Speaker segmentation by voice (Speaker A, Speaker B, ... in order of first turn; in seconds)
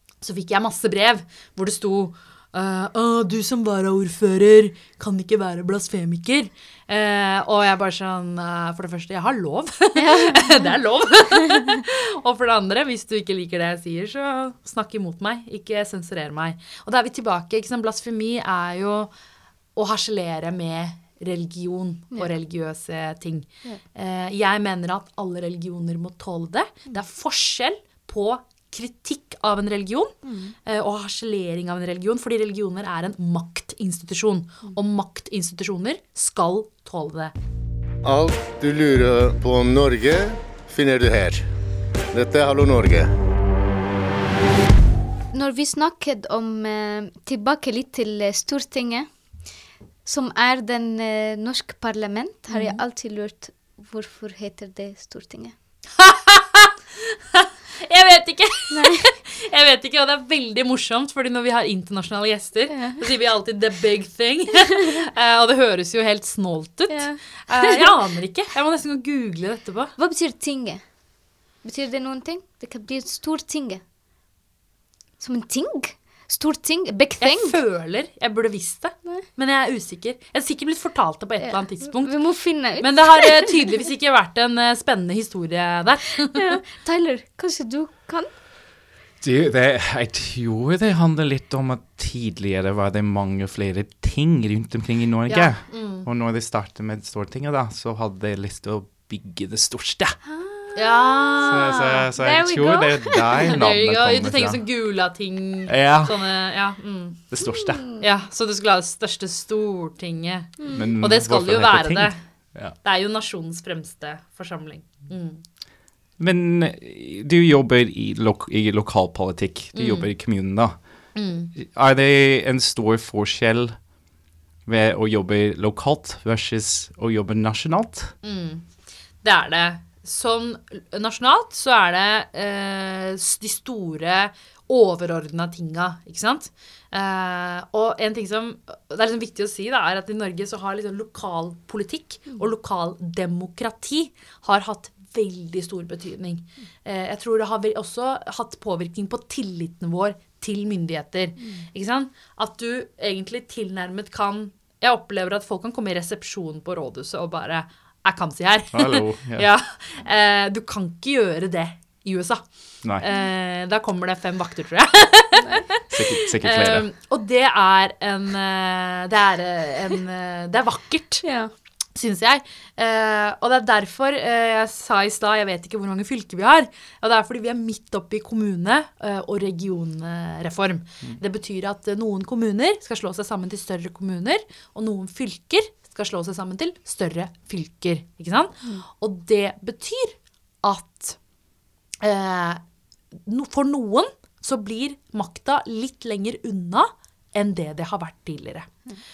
Speaker A: 0.2-19.1, 19.8-37.3, 52.5-52.8, 56.0-69.9, 77.2-82.2, 82.8-86.5, 95.3-96.1, 100.8-107.2, 108.0-112.2, 112.8-115.4, 119.7-120.1, 121.1-121.5, 128.2-128.7, 129.2-171.2, 171.9-191.2, 192.0-192.6, 193.2-198.7
Speaker B: 10.0-10.7, 30.2-30.5, 45.3-49.1, 50.0-55.5, 58.7-59.0, 62.7-63.0, 66.9-67.8, 70.0-70.8, 71.6-73.8, 75.2-77.6, 81.4-83.7, 86.2-88.3, 100.2-103.2, 107.5-108.0, 171.2-171.5
Speaker C: 38.0-41.4, 42.1-43.1
Speaker D: 89.2-100.2, 101.4-104.6, 105.7-106.2, 107.3-107.8, 110.7-112.8, 116.2-120.8, 121.5-123.8, 124.7-128.1, 158.7-159.4, 165.9-166.9